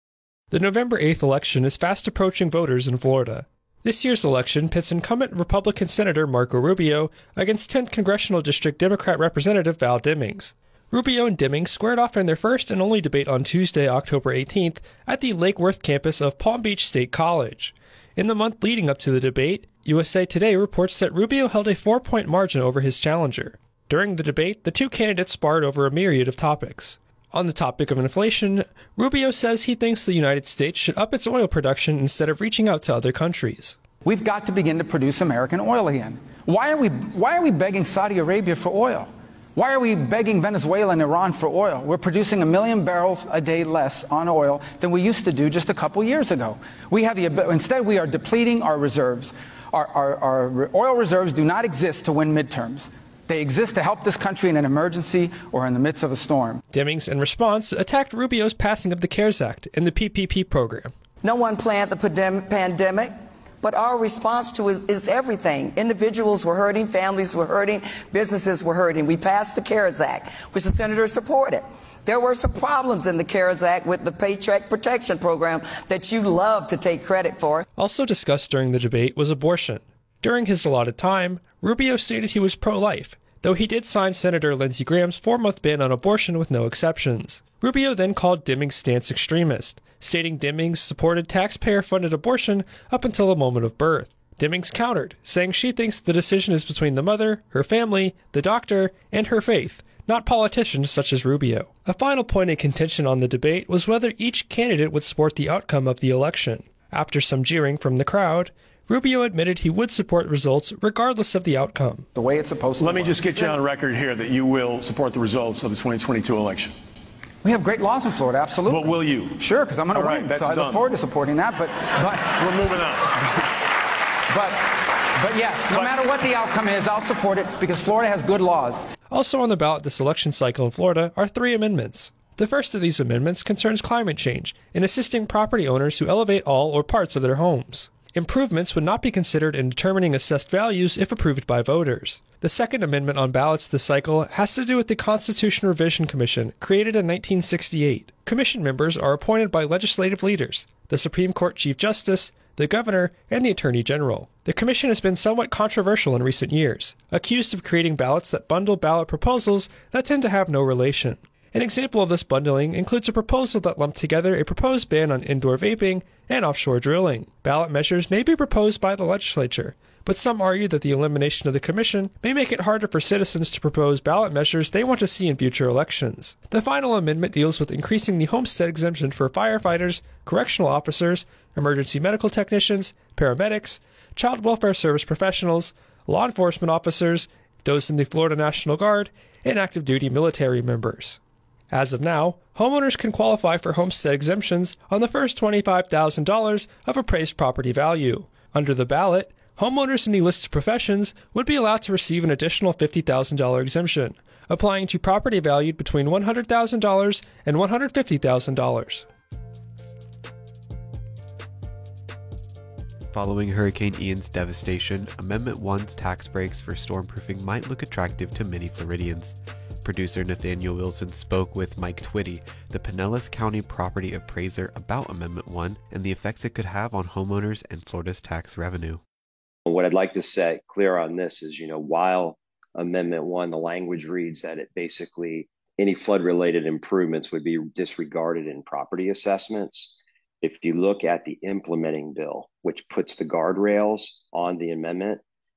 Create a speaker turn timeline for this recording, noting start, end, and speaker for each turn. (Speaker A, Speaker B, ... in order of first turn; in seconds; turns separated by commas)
Speaker A: 0.5-33.8, Speaker B: 34.0-56.6, Speaker A: 56.7-60.9, Speaker C: 61.2-77.7, Speaker A: 77.8-112.1, Speaker B: 112.1-113.6, Speaker D: 112.8-116.8, Speaker B: 117.4-122.8, Speaker D: 118.7-120.9, Speaker D: 122.4-123.1, Speaker B: 124.3-128.9, Speaker D: 125.7-126.1, Speaker A: 129.1-191.2, Speaker A: 191.7-209.1, Speaker E: 213.1-229.0, Speaker F: 229.7-245.2